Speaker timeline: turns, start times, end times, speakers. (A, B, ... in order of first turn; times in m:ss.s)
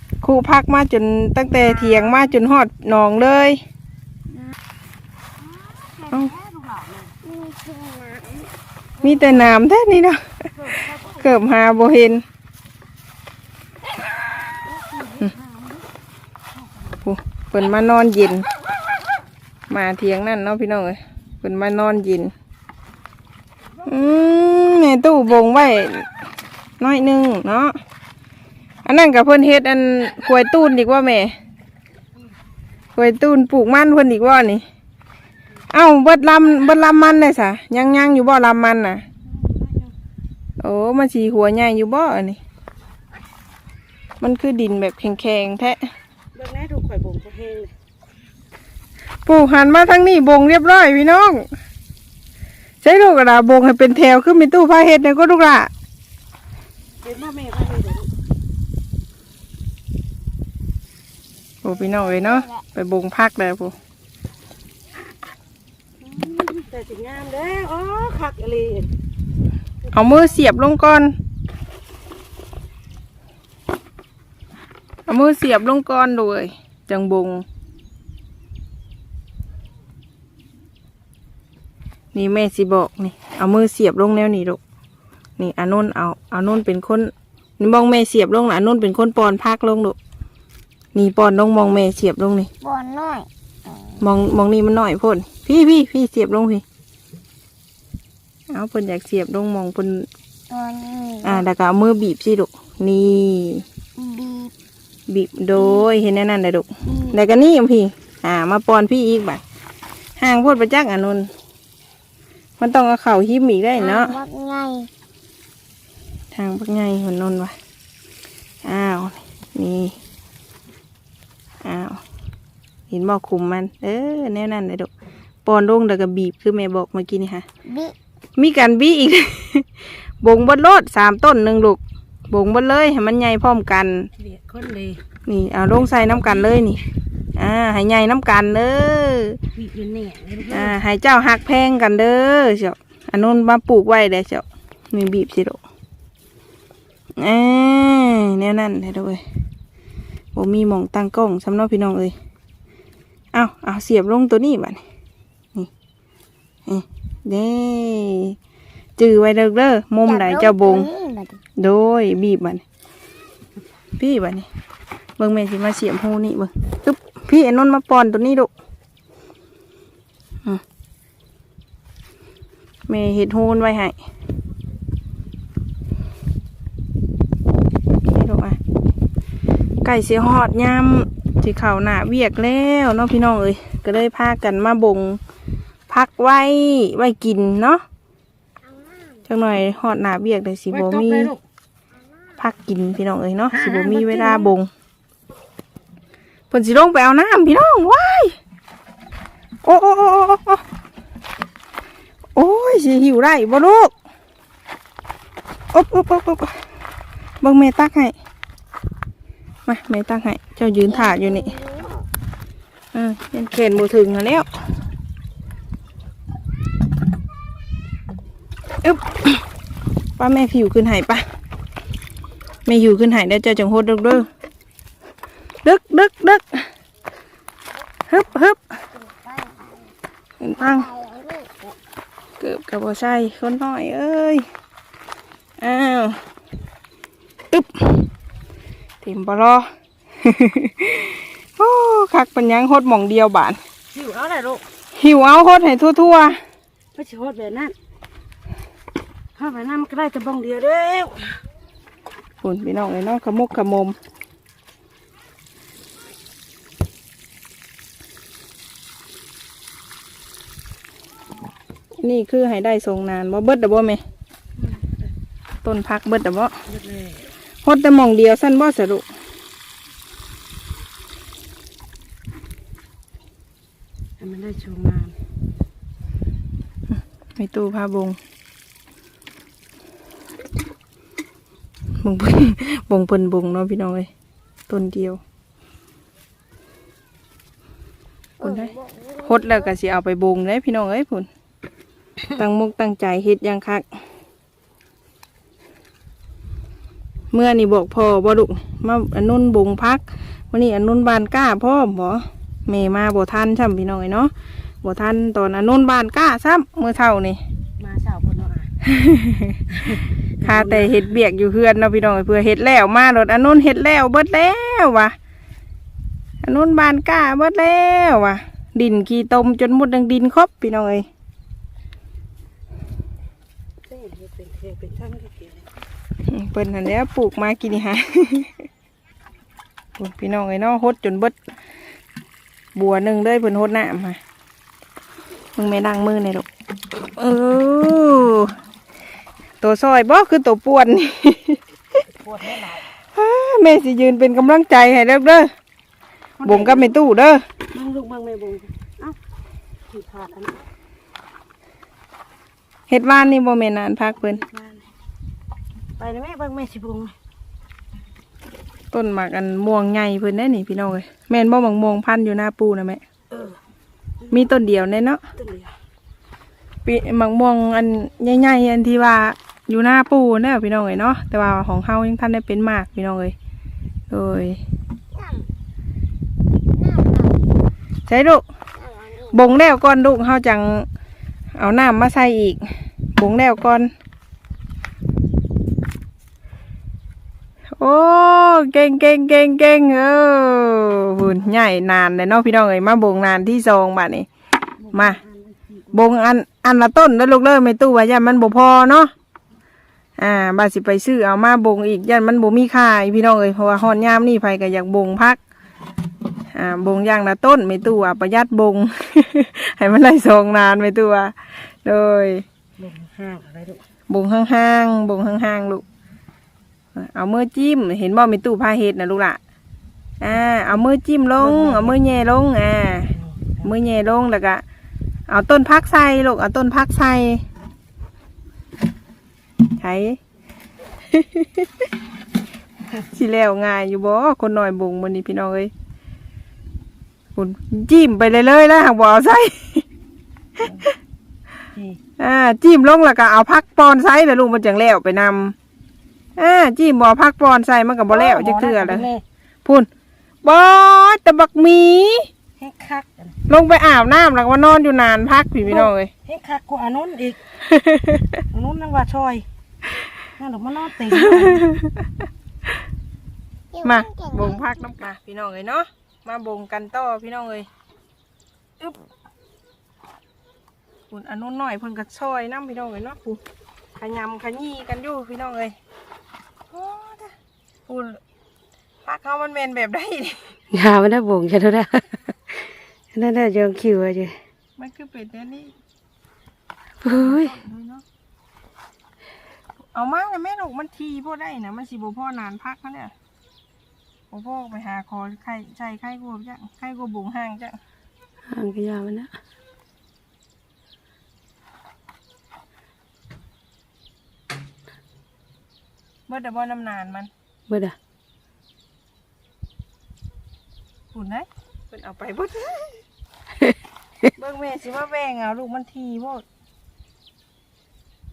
0:00.2-0:03.6 A
0:01.8-0:02.1 B
0:05.5-0:07.1 C
0:07.2-0:08.5 B
0:09.0-0:10.2 A
0:10.5-0:11.4 C
0:11.2-0:12.2 A
0:14.6-0:15.9 C
0:16.6-0:17.0 C
0:17.0-0:18.4 A
0:19.7-0:22.3 A
0:23.8-0:26.1 A
0:26.8-0:27.8 A
0:28.8-0:31.3 A
0:33.0-0:34.6 A
0:35.7-0:39.0 A
0:39.2-0:39.9 C
0:40.6-0:42.4 A
0:44.2-0:45.8 A
0:46.3-0:47.7 C
0:49.2-0:51.4 A
0:52.8-0:55.7 A
0:57.0-0:58.1 C
1:01.6-1:03.7 A
1:01.7-1:02.6 B
1:06.0-1:08.9 C
1:09.9-1:11.2 A
1:15.1-1:17.4 A
1:22.1-1:24.6 A
1:25.4-1:30.0 A
1:30.9-1:32.5 A
1:32.6-1:34.0 B
1:34.0-1:36.6 A
1:38.5-1:40.1 A
1:40.5-1:41.4 B
1:41.2-1:43.6 A
1:44.0-1:44.5 B
1:45.1-1:49.4 A
1:45.5-1:45.8 B
1:46.8-1:47.2 B
1:50.2-1:51.3 A
1:52.6-1:54.2 A
1:53.8-1:54.9 B
1:56.3-1:57.5 A
1:58.6-2:00.0 A
2:01.6-2:02.0 A
2:02.9-2:04.9 A
2:05.4-2:07.4 A
2:07.6-2:07.9 B
2:08.4-2:14.1 A
2:14.1-2:15.0 C
2:15.3-2:16.8 A
2:15.7-2:16.8 C
2:17.4-2:19.4 A
2:19.5-2:20.7 C
2:20.5-2:25.6 A
2:27.2-2:29.2 A
2:30.3-2:32.2 A
2:33.3-2:34.8 A
2:36.7-2:38.4 A
2:39.0-2:40.9 A
2:40.0-2:41.4 B
2:41.6-2:42.6 A
2:44.0-2:44.4 A
2:45.2-2:48.5 A
2:52.9-2:53.9 A
2:58.0-2:58.6 A
2:59.8-3:05.2 A
3:05.9-3:07.8 A
3:08.6-3:09.2 B
3:09.3-3:11.3 A
3:10.7-3:11.4 C
3:12.4-3:14.7 A
3:13.5-3:14.5 C
3:16.5-3:18.4 A
3:19.6-3:20.6 A
3:22.4-3:23.9 A
3:25.7-3:26.6 A
3:27.4-3:28.1 A
3:29.7-3:31.6 A
3:30.9-3:32.1 B
3:32.9-3:34.5 A
3:38.8-3:39.3 A
3:40.2-3:41.2 A
3:42.6-3:44.3 A
3:45.6-3:46.6 A
3:48.1-3:48.6 A
3:48.9-3:49.9 B
3:50.4-3:50.9 A
3:50.6-3:51.7 B
3:52.4-3:54.4 A
3:55.6-3:56.2 A
3:57.5-3:58.0 A
3:59.0-3:59.7 A
4:00.2-4:03.6 A
4:03.9-4:04.6 C
4:05.0-4:06.4 A
4:06.9-4:07.7 C
4:09.4-4:11.4 C
4:12.4-4:14.0 A
4:22.0-4:24.0 A
4:24.6-4:25.1 C
4:25.6-4:26.5 A
4:26.7-4:27.3 C
4:27.6-4:29.0 A
4:34.2-4:35.2 C
4:36.9-4:38.2 A
4:42.0-4:44.1 A
4:44.7-4:45.2 A
4:48.4-4:49.7 B
4:48.4-4:48.7 A
4:49.2-4:51.3 A
4:52.3-4:53.8 A
4:57.3-5:07.4 A
5:07.8-5:08.7 C
5:08.8-5:09.6 A
5:09.7-5:11.2 C
5:10.4-5:15.1 A
5:16.4-5:21.0 A
5:23.8-5:25.7 C
5:26.3-5:28.6 A
5:30.0-5:31.4 A
5:32.7-5:34.2 A
5:35.6-5:36.4 A
5:37.0-5:38.5 A
5:39.6-5:41.6 A
5:42.2-5:42.8 C
5:43.1-5:45.5 A
5:46.4-5:47.0 C
5:46.4-5:47.4 A
5:47.7-5:49.2 C
5:49.9-5:50.7 C
5:52.9-5:54.4 A
5:54.2-5:54.8 C
5:56.0-5:57.1 C
5:58.9-6:03.0 A
6:03.3-6:03.6 C
6:04.2-6:04.5 C
6:04.3-6:05.2 A
6:05.4-6:05.7 C
6:06.8-6:13.3 A
6:14.1-6:14.6 A
6:15.1-6:15.5 B
6:16.7-6:17.4 B
6:18.1-6:18.4 A
6:18.7-6:19.4 B
6:19.3-6:20.9 A
6:21.6-6:22.6 A
6:23.2-6:23.9 A
6:27.8-6:34.3 A
6:34.8-6:36.0 C
6:34.9-6:35.2 A
6:35.9-6:39.1 A
6:40.2-6:45.4 A
6:46.5-6:52.4 A
6:52.8-6:53.8 C
6:54.1-6:55.8 A
6:56.9-6:59.4 A
7:00.2-7:03.1 A
7:00.3-7:00.8 C
7:01.4-7:02.0 C
7:03.1-7:03.7 C
7:03.6-7:04.6 A
7:05.3-7:07.4 A
7:09.8-7:10.2 A
7:11.1-7:11.8 A
7:13.0-7:15.7 A
7:17.4-7:19.8 A
7:21.7-7:22.0 C
7:22.2-7:25.5 A
7:26.4-7:29.0 A
7:28.1-7:29.2 C
7:30.4-7:32.3 A
7:32.6-7:33.3 C
7:33.5-7:36.1 A
7:35.6-7:37.4 C
7:37.7-7:38.4 A
7:38.5-7:39.4 C
7:40.4-7:41.7 C
7:41.2-7:41.9 A
7:43.7-7:44.8 B
7:43.8-7:47.7 A
7:51.1-7:53.4 A
7:54.0-7:55.8 A
7:56.7-7:57.3 A
7:59.0-8:00.5 A
8:00.7-8:04.4 C
8:04.8-8:05.7 A
8:07.0-8:07.5 C
8:07.0-8:08.0 A
8:09.9-8:13.1 A
8:14.3-8:17.8 A
8:18.5-8:19.3 C
8:26.3-8:27.3 A
8:27.7-8:28.0 C
8:31.1-8:33.0 A
8:34.3-8:36.4 A